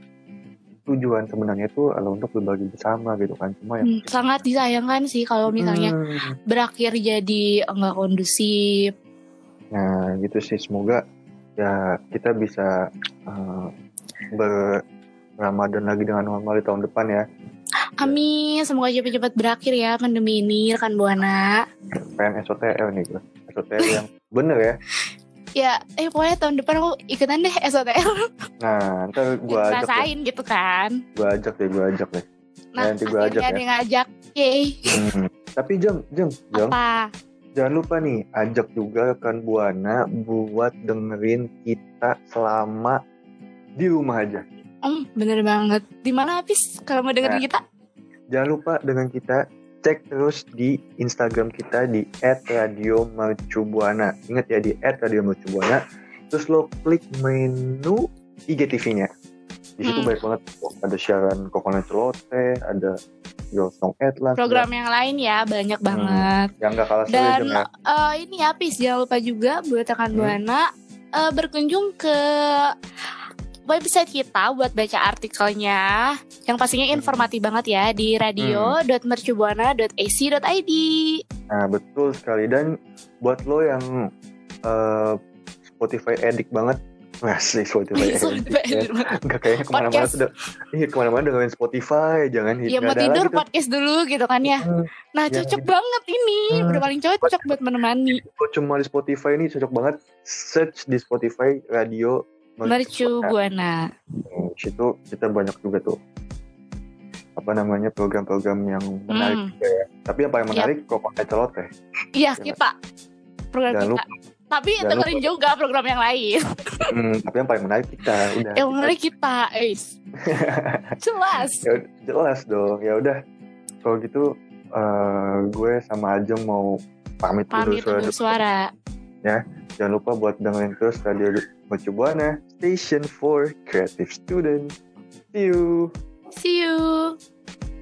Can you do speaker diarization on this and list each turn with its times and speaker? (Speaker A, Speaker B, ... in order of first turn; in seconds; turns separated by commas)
Speaker A: 0.9-4.4, Speaker B: 3.8-5.9, Speaker A: 5.5-6.3, Speaker B: 6.5-8.9, Speaker A: 9.7-11.0, Speaker A: 11.6-12.7, Speaker A: 13.3-13.7, Speaker A: 14.3-14.8, Speaker A: 15.4-17.2, Speaker B: 18.0-21.6, Speaker A: 22.0-24.8, Speaker B: 25.6-28.2, Speaker A: 28.6-30.1, Speaker B: 29.5-31.0, Speaker A: 31.1-32.2, Speaker B: 32.8-34.8, Speaker A: 32.8-33.6, Speaker A: 34.9-36.8, Speaker B: 36.5-37.1, Speaker A: 37.6-43.0, Speaker A: 43.8-44.4, Speaker B: 44.8-47.6, Speaker A: 48.3-59.1, Speaker A: 59.8-62.9, Speaker B: 59.8-60.1, Speaker A: 63.5-64.7, Speaker B: 64.4-66.5, Speaker A: 65.9-67.6, Speaker B: 67.1-72.7, Speaker B: 73.7-81.2, Speaker A: 76.9-77.3, Speaker A: 78.4-78.7, Speaker A: 81.5-82.7, Speaker A: 83.2-83.8, Speaker A: 84.7-85.2, Speaker A: 85.7-93.4, Speaker B: 88.0-89.1, Speaker B: 89.7-90.2, Speaker B: 92.7-94.6, Speaker A: 94.4-95.7, Speaker B: 95.1-98.2, Speaker A: 96.5-97.5, Speaker A: 98.1-103.3, Speaker B: 102.6-103.8, Speaker A: 104.3-106.0, Speaker A: 107.4-111.7, Speaker B: 109.1-109.5, Speaker B: 112.2-112.7, Speaker B: 113.5-116.8, Speaker A: 113.7-114.0, Speaker A: 114.8-115.2, Speaker A: 116.8-119.0, Speaker B: 118.6-119.9, Speaker A: 120.2-120.9, Speaker B: 121.0-121.6, Speaker A: 121.6-123.2, Speaker A: 123.8-128.4, Speaker B: 127.5-128.7, Speaker A: 129.2-134.7, Speaker A: 135.3-135.9, Speaker B: 136.3-137.2